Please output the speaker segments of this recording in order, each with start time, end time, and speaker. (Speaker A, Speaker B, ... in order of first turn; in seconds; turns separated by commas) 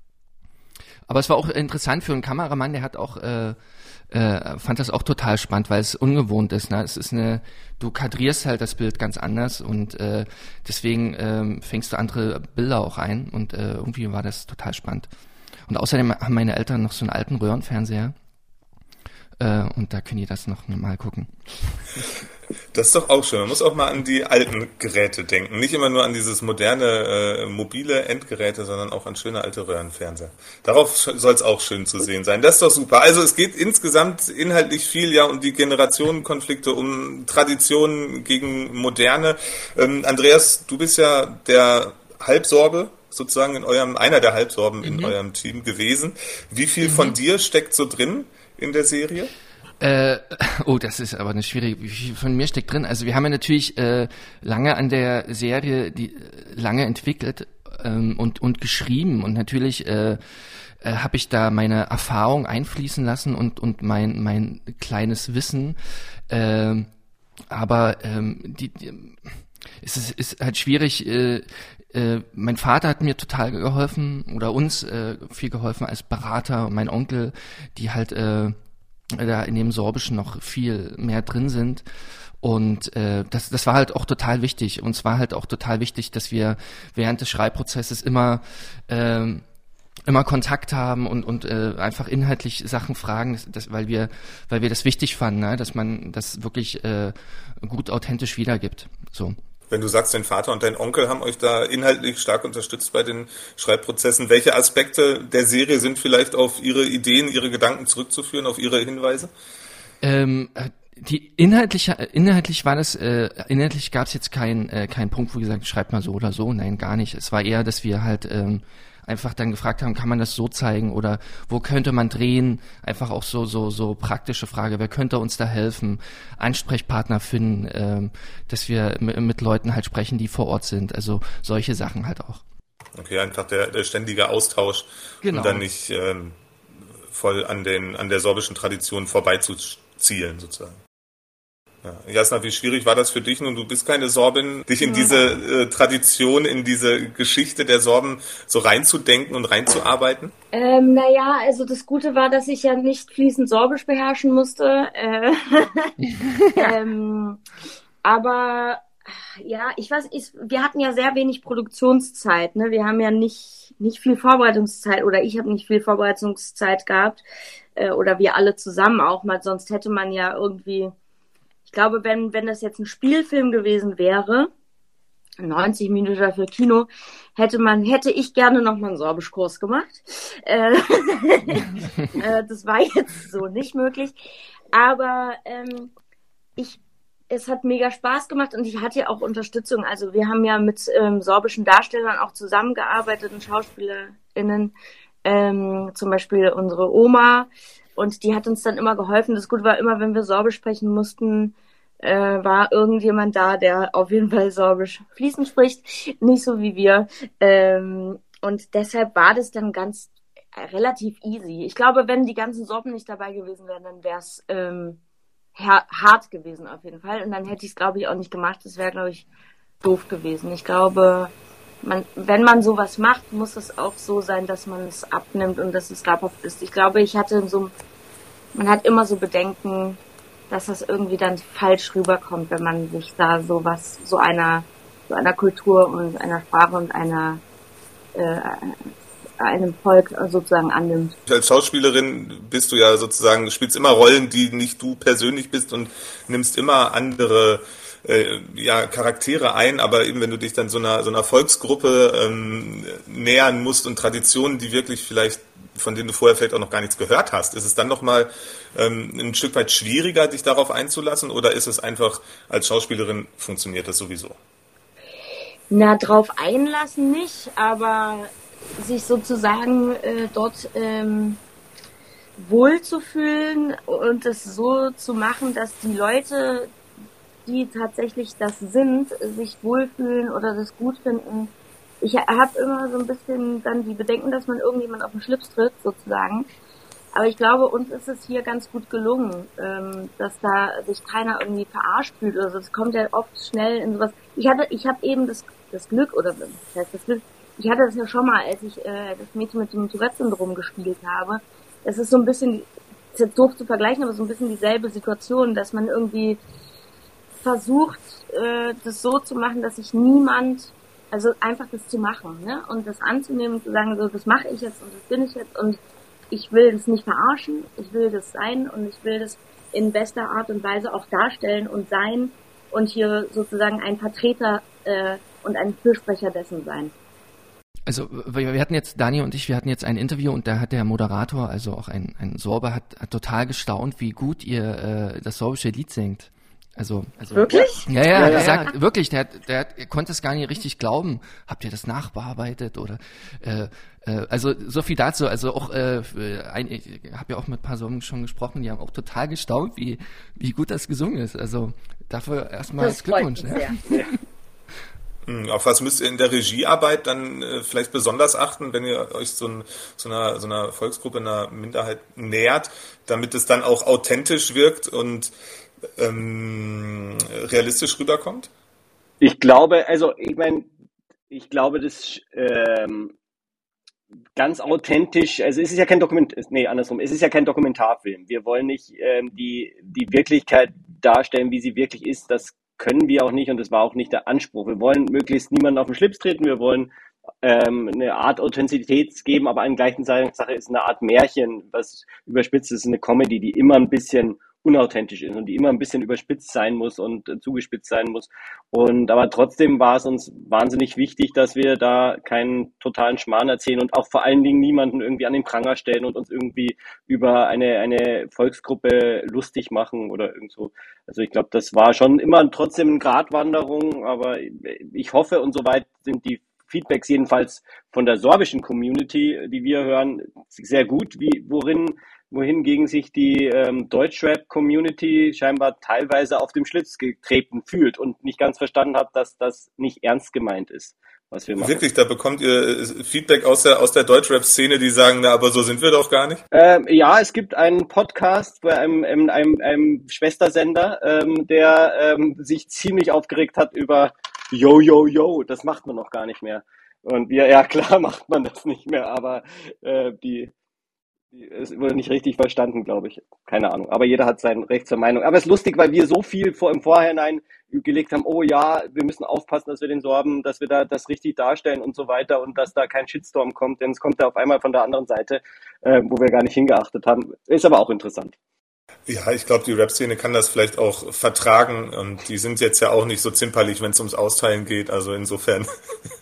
Speaker A: 1.1-3.6, Speaker A: 4.1-15.1, Speaker A: 15.7-18.1, Speaker A: 19.4-21.3, Speaker B: 22.7-49.3, Speaker A: 44.9-45.1, Speaker A: 46.8-47.2, Speaker A: 49.8-60.2, Speaker A: 60.8-65.8, Speaker A: 66.3-66.9, Speaker A: 67.5-78.6, Speaker A: 79.1-81.8, Speaker A: 82.4-89.4, Speaker A: 90.1-99.4, Speaker B: 99.7-109.3, Speaker A: 110.0-132.4, Speaker B: 133.0-136.4, Speaker A: 135.2-135.7, Speaker B: 137.1-140.8, Speaker B: 141.8-150.3, Speaker C: 144.8-145.2, Speaker C: 150.5-155.9, Speaker C: 156.5-157.4, Speaker C: 158.0-158.9, Speaker C: 159.4-167.2, Speaker C: 167.8-170.9, Speaker C: 171.7-174.5, Speaker C: 175.4-184.2, Speaker C: 184.7-185.9, Speaker C: 187.3-215.0, Speaker C: 215.6-219.3, Speaker C: 219.8-227.7, Speaker C: 228.6-237.4, Speaker C: 238.2-238.8, Speaker C: 239.4-241.2, Speaker B: 241.3-264.4, Speaker C: 265.7-271.4, Speaker C: 272.4-276.7, Speaker C: 277.5-286.5, Speaker C: 287.1-306.4, Speaker C: 307.4-315.8, Speaker C: 316.3-326.9, Speaker A: 327.9-354.1, Speaker C: 337.3-338.6, Speaker D: 338.1-338.5, Speaker C: 352.8-353.8, Speaker B: 355.3-365.3, Speaker B: 366.0-368.5, Speaker D: 369.2-370.7, Speaker D: 371.3-373.1, Speaker D: 374.4-386.9, Speaker D: 387.4-431.8, Speaker B: 431.6-436.4, Speaker D: 436.5-450.5, Speaker D: 451.3-468.3, Speaker B: 469.1-475.7